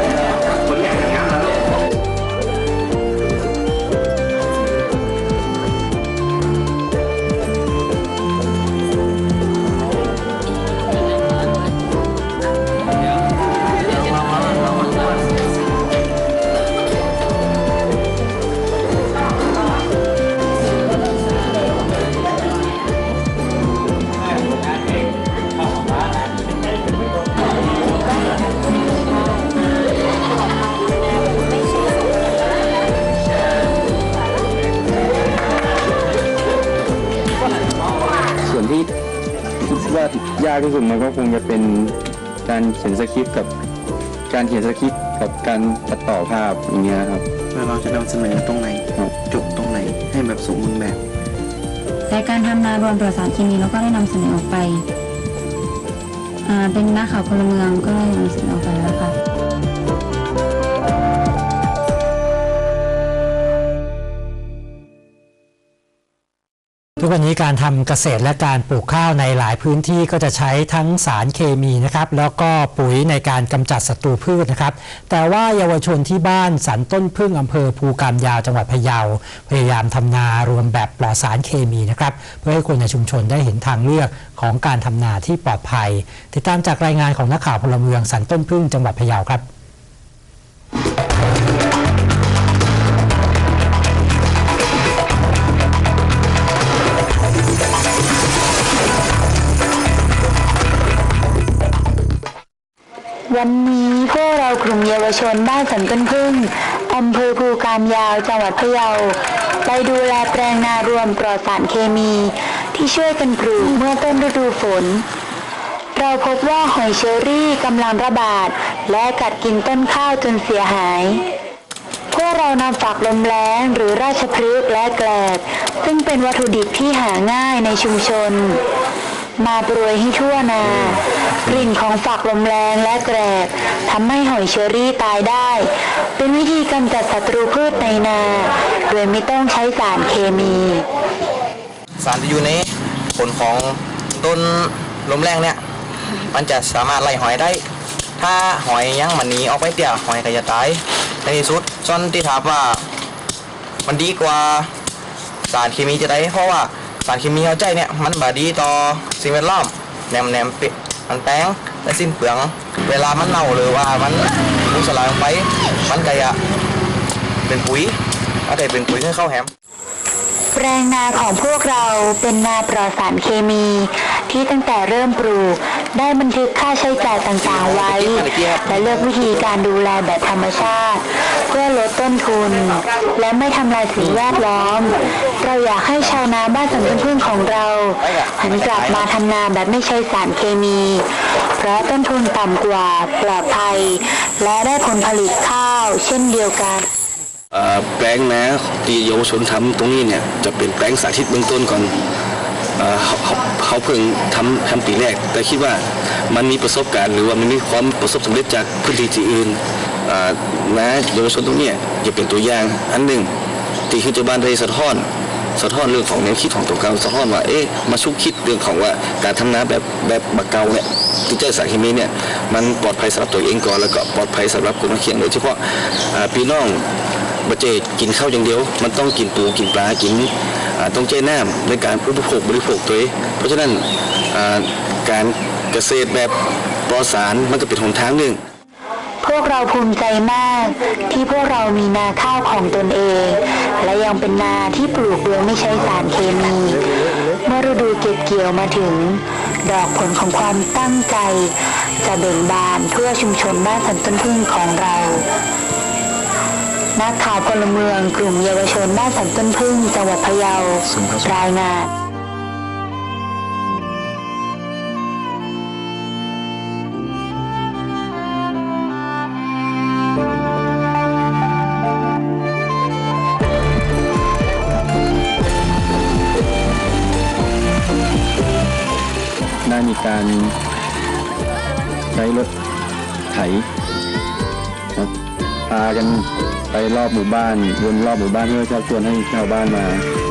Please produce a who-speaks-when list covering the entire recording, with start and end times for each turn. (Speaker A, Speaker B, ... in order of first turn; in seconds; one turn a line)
Speaker A: 0.5-1.6
Speaker B: 38.4-38.9
Speaker B: 39.6-43.5
Speaker B: 44.3-47.3
Speaker C: 47.5-51.0
Speaker D: 52.1-54.8
Speaker D: 56.5-59.2
Speaker E: 67.0-89.5
Speaker F: 103.3-115.1
Speaker F: 116.0-121.2
Speaker F: 122.1-128.6
Speaker F: 129.4-140.9
Speaker A: 142.0-145.6
Speaker A: 146.3-147.6
Speaker A: 148.2-152.9
Speaker A: 153.9-154.7
Speaker A: 155.5-166.4
Speaker A: 167.5-169.5
Speaker F: 170.6-196.9
Speaker G: 197.5-201.9
Speaker G: 202.8-213.3
Speaker G: 213.9-215.1
Speaker G: 215.6-226.8
Speaker G: 227.5-236.3
Speaker G: 236.9-238.4
Speaker F: 239.2-255.2
Speaker F: 257.0-261.9
Speaker B: 279.6-280.6
Speaker B: 282.1-282.5
Speaker B: 283.3-283.7
Speaker B: 285.7-290.1